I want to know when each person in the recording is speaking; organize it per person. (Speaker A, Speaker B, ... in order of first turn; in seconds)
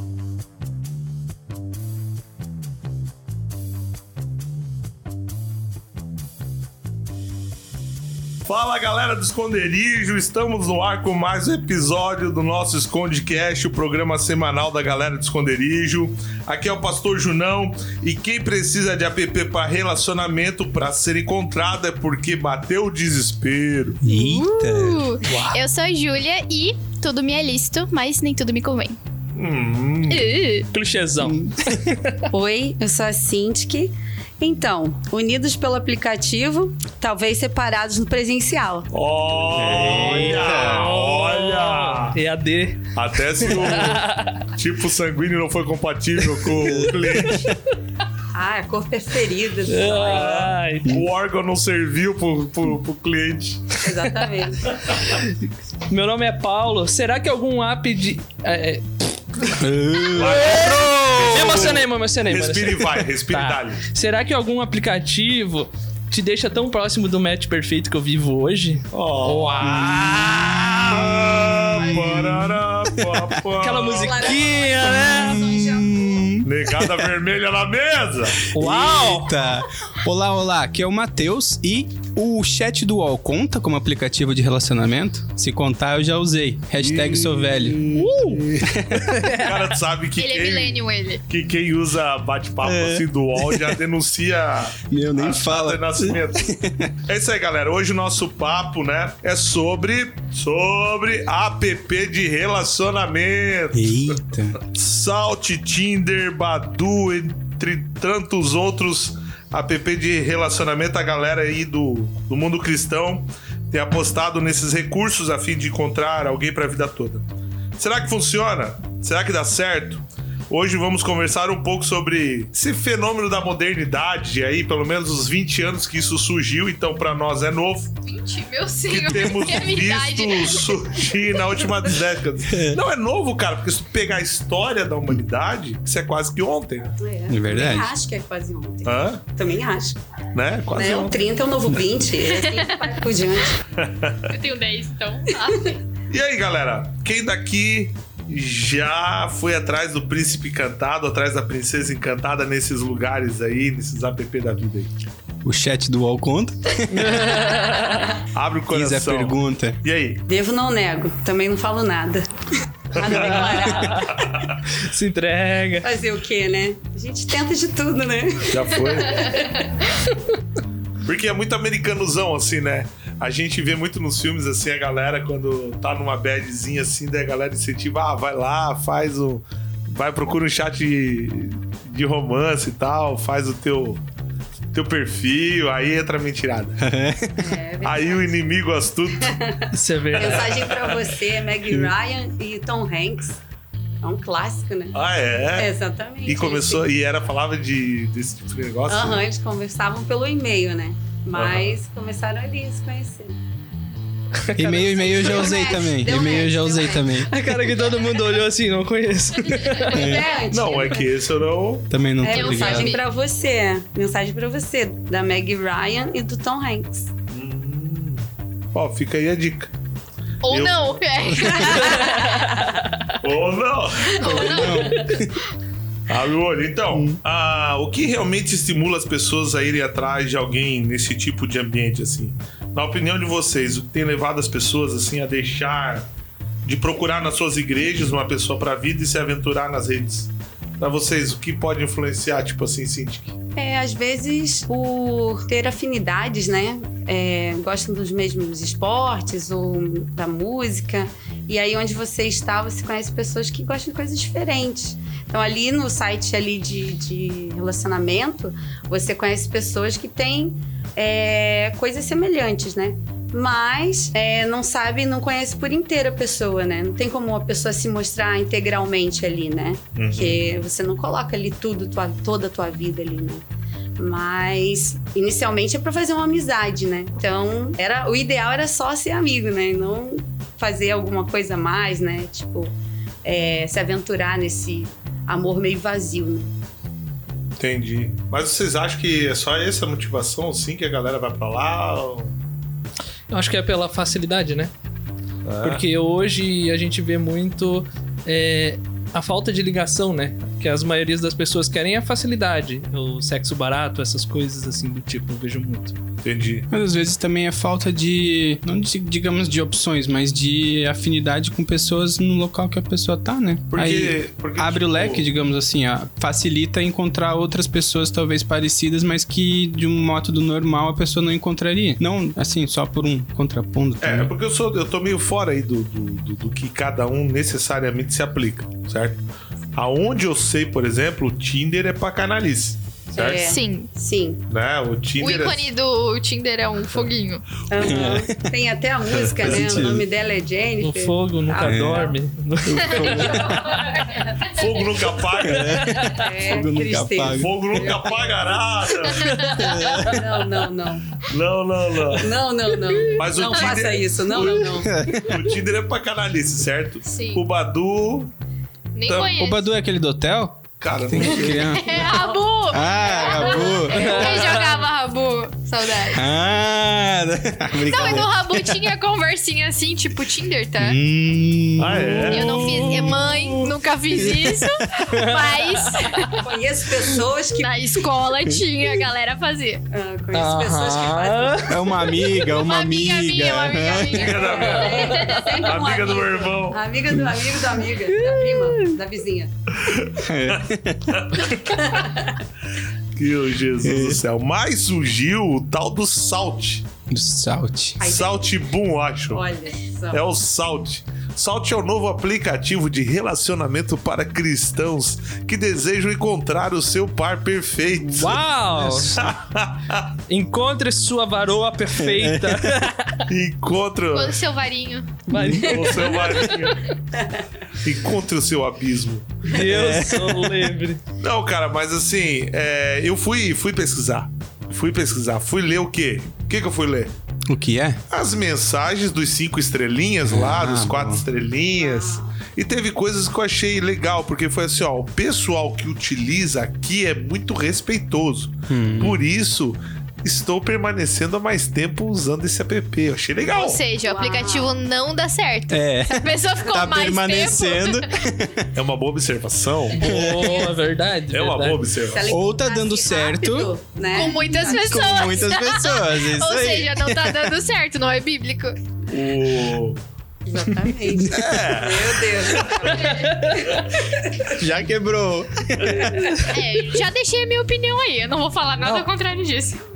Speaker A: 8.4-24.0, 25.2-25.6, 29.3-30.3, 38.9-42.2, 42.9-47.5, 50.0-53.7, 60.1-63.8, 68.9-74.2, 76.4-78.5, 86.8-96.5, 97.0-117.2, 117.8-127.9, 128.9-136.9, 138.8-139.2, 140.3-141.2, 143.7-144.3, 146.1-154.9, 158.3-160.2, 162.9-164.6, 168.5-169.5, 171.0-184.0, 184.7-186.8, 187.8-189.3, 190.1-191.1, 194.9-195.7, 196.2-199.2, 201.3-201.7, 210.5-211.9, 217.3-219.7, 220.5-221.6, 223.2-224.6, 226.1-236.1, 236.6-243.3, 270.0-270.4, 287.6-292.3, 295.4-295.8, 306.2-306.7, 313.7-315.2, 324.0-329.2, 329.7-333.4, 334.5-335.7, 344.4-345.9, 347.3-349.5, 351.2-352.4, 353.1-358.3, 359.1-359.3, 360.8-361.8, 371.8-372.6, 384.1-386.8, 389.8-391.5, 393.1-396.9, 398.0-399.4, 400.1-408.4, 409.0-410.1, 413.3-414.4, 415.5-416.9, 417.8-419.4, 421.2-427.1, 428.1-443.8, 448.7-450.2, 451.3-452.3, 459.1-460.0, 461.2-462.9
Speaker B: 24.0-25.1, 31.2-31.6, 39.5-40.9, 46.6-47.5, 59.6-61.6, 70.9-73.3, 74.2-77.1, 78.4-88.0, 88.6-89.4, 92.6-93.8, 94.9-96.9, 103.7-104.6, 132.5-132.8, 137.3-137.9, 155.4-157.6, 158.7-159.8, 186.8-187.5, 204.6-207.3, 209.9-210.3, 211.9-213.0, 221.4-221.8, 224.2-225.4, 226.9-227.2, 306.7-324.3, 337.8-338.4, 339.1-340.1, 341.6-342.1, 342.6-343.6, 345.4-347.5, 349.6-350.2, 354.8-355.5, 359.3-364.4, 366.0-368.8, 370.8-373.3, 374.1-375.0, 381.7-384.4, 387.1-387.4, 390.2-391.2, 393.8-394.2, 397.1-398.0, 408.8-409.2, 412.0-412.8, 415.3-415.8, 419.6-420.7, 427.5-428.0, 430.2-431.2, 438.7-439.2, 445.7-448.7, 450.0-450.7, 452.3-457.6, 461.1-461.6, 464.4-466.4
Speaker C: 24.1-29.0, 30.1-30.7, 71.8-72.1, 90.2-91.2, 128.1-131.1, 142.4-142.9, 144.3-145.8, 209.7-210.1, 212.3-213.0, 220.4-222.4, 224.1-225.4, 333.2-333.9, 335.2-337.4, 343.0-344.4, 349.2-349.6, 357.1-357.4, 358.9-359.6, 361.6-366.2, 367.8-371.0, 372.3-376.4, 377.5-379.8, 382.4-385.6, 414.1-415.3, 416.2-416.6, 443.4-448.2, 454.1-458.8, 466.4-469.8
Speaker D: 30.7-32.2, 39.9-44.5, 49.6-51.0, 55.0-58.9, 61.3-70.0, 73.6-74.6, 78.5-79.3, 88.0-88.4, 156.9-158.2, 163.2-164.1, 164.7-165.9, 189.7-190.6, 204.3-205.5, 207.2-210.1, 221.8-223.2, 293.3-294.7, 295.6-305.9, 340.8-343.4, 345.6-346.2, 363.9-364.5, 372.6-373.1, 375.0-376.0, 380.3-381.8, 384.9-385.4, 388.1-388.9, 408.1-409.2, 410.3-413.3, 415.3-416.3, 419.4-421.0, 449.9-451.8, 462.9-463.8, 468.8-469.1
Speaker E: 32.3-38.9, 48.3-50.4, 53.8-54.7, 73.9-76.4, 137.0-140.0, 140.7-143.6, 145.3-145.7, 160.3-164.4, 165.8-169.8, 187.4-188.6, 189.2-193.4, 194.0-194.9, 195.5-196.8, 198.9-203.4, 204.7-207.3, 209.8-211.2, 212.2-217.1, 221.7-222.4, 243.6-273.4, 274.0-282.7, 283.2-286.5, 333.1-334.4, 337.7-342.2, 343.1-344.4, 346.1-348.4, 349.7-351.2, 352.1-354.9, 361.9-362.4, 363.1-364.9, 376.0-377.9, 379.9-381.8, 384.3-389.5, 391.5-392.4, 398.0-398.4, 399.3-400.2, 417.1-417.4, 431.8-432.4, 444.0-444.8, 452.1-455.3, 460.4-464.5